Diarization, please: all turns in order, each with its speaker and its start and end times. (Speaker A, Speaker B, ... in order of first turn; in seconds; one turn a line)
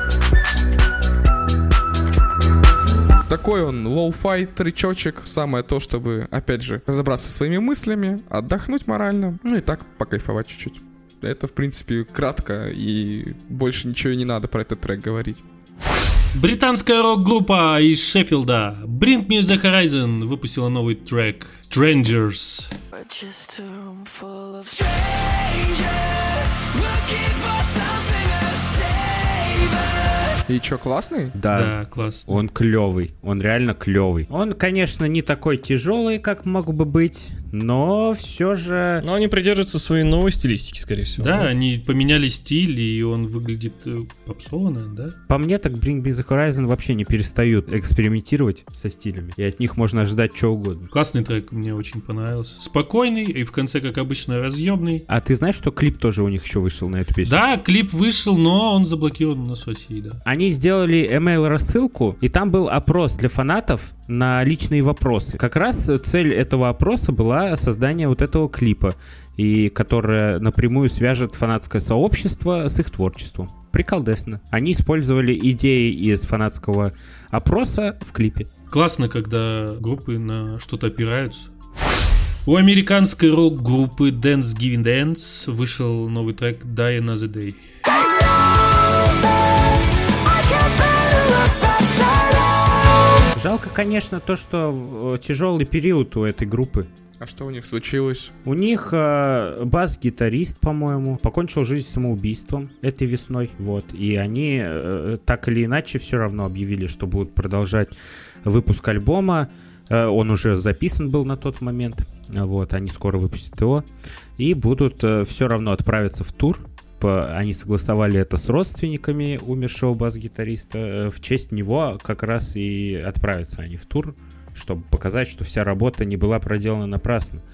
Speaker A: 3.3-15.4
Speaker B: 16.3-22.7
Speaker C: 22.9-30.0
Speaker A: 30.5-31.4
Speaker D: 31.4-39.0
Speaker B: 31.5-32.4
Speaker E: 39.0-41.5
Speaker B: 41.2-45.2
Speaker D: 45.3-50.9
Speaker B: 50.9-55.0
Speaker D: 55.1-57.4
Speaker B: 57.3-60.2
Speaker D: 60.2-78.5
Speaker B: 78.7-81.5
Speaker B: 82.5-87.6
Speaker C: 88.0-89.1
Speaker C: 90.3-92.9
Speaker D: 93.3-96.9
Speaker A: 97.2-98.3
Speaker D: 98.4-113.8
Speaker D: 114.4-127.4